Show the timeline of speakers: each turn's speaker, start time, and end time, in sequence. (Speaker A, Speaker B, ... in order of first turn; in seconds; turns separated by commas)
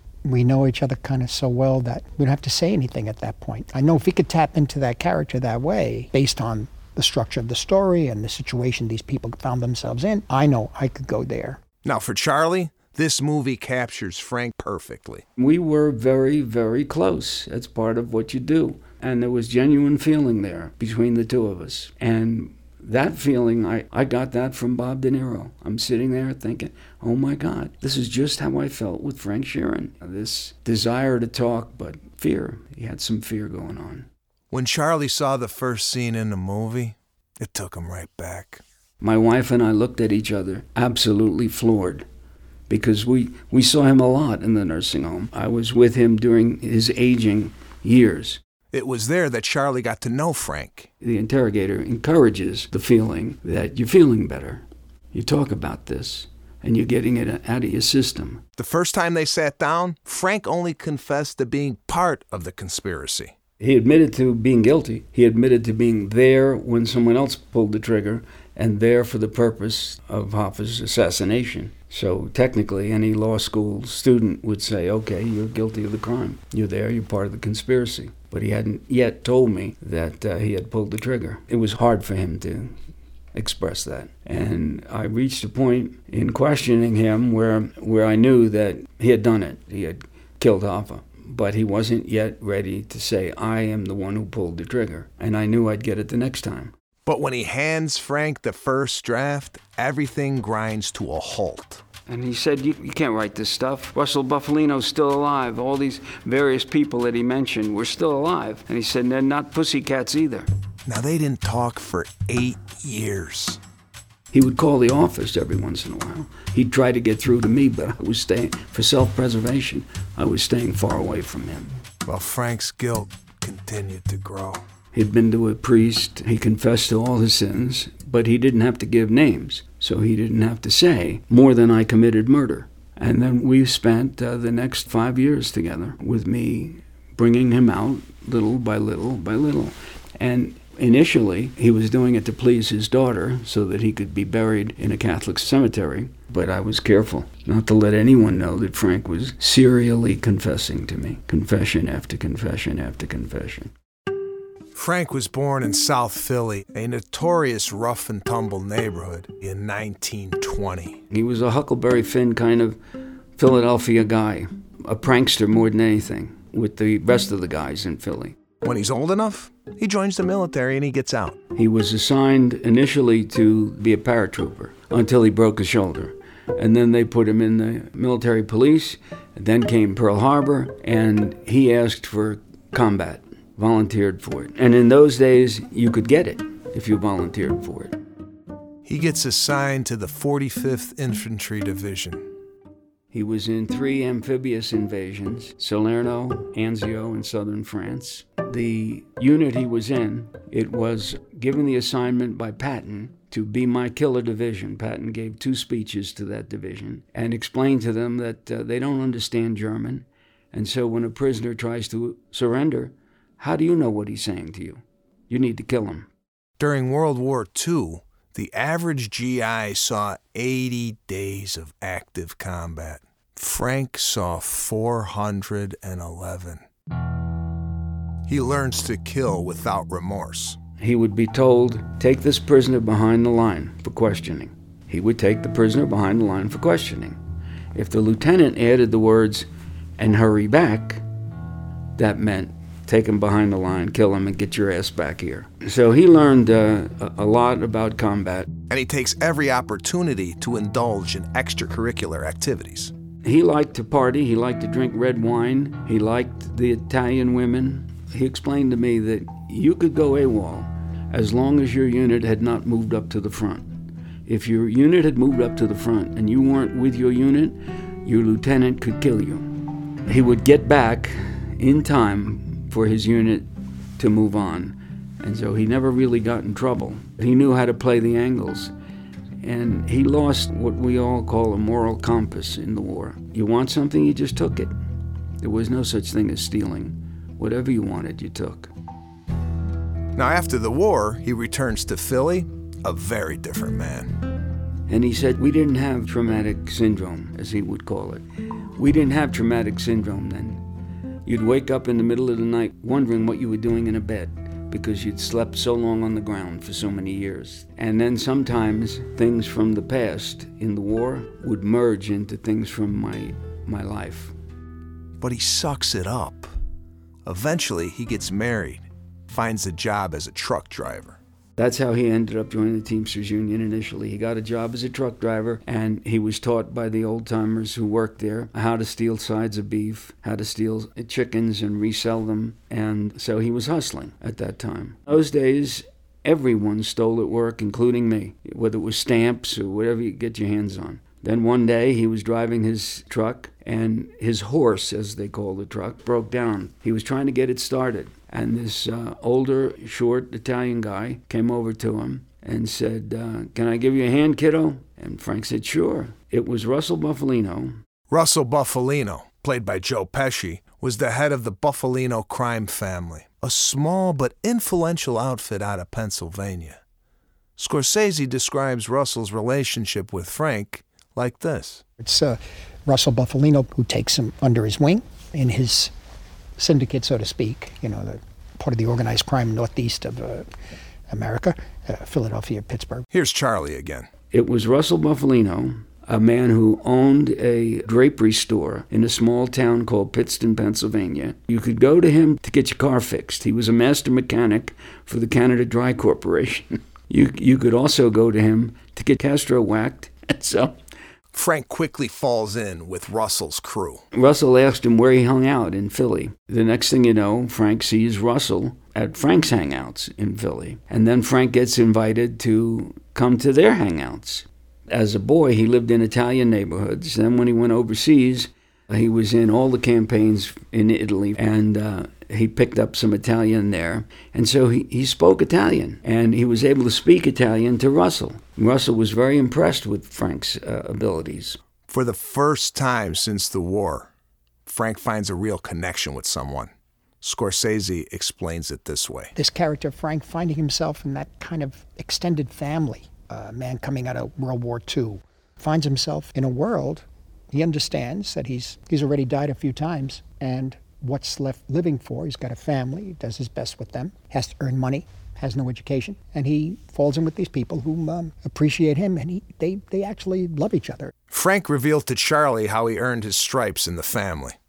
Speaker A: 0.2-11.6, Speaker B: 11.8-15.2, Speaker C: 15.4-34.1, Speaker B: 34.5-38.6, Speaker C: 39.0-42.1, Speaker C: 42.7-48.4, Speaker B: 48.7-50.9, Speaker C: 51.0-58.4, Speaker B: 58.6-63.4, Speaker C: 63.6-82.8, Speaker C: 83.3-96.7, Speaker B: 97.1-101.8, Speaker C: 102.1-110.5, Speaker B: 110.9-113.6, Speaker C: 114.3-121.7, Speaker B: 122.1-124.6, Speaker C: 124.9-153.7, Speaker B: 154.8-161.0, Speaker C: 161.1-162.8, Speaker C: 163.4-168.4, Speaker B: 168.6-171.4, Speaker C: 171.6-188.0, Speaker B: 188.8-192.3, Speaker C: 193.1-216.1, Speaker B: 216.6-226.6, Speaker B: 228.3-230.6, Speaker C: 230.8-237.2, Speaker C: 237.8-239.5, Speaker C: 240.0-241.0, Speaker C: 242.0-248.5, Speaker B: 248.7-252.9, Speaker C: 253.2-263.7, Speaker C: 264.3-269.5, Speaker C: 270.1-278.7, Speaker C: 279.4-284.7, Speaker C: 285.4-288.7, Speaker B: 290.2-294.1, Speaker C: 294.9-298.2, Speaker C: 298.8-300.6, Speaker C: 301.2-314.4, Speaker B: 315.2-316.5, Speaker B: 317.2-321.2, Speaker C: 321.6-357.8, Speaker B: 358.1-366.8, Speaker B: 367.6-371.8, Speaker A: 372.0-375.9, Speaker A: 376.6-380.5, Speaker A: 381.1-383.1, Speaker B: 383.1-384.1, Speaker C: 384.3-400.8, Speaker B: 401.3-404.1, Speaker C: 404.1-431.6, Speaker B: 431.9-434.1, Speaker B: 434.6-436.7, Speaker B: 437.2-439.3, Speaker A: 439.4-461.1, Speaker B: 461.3-464.6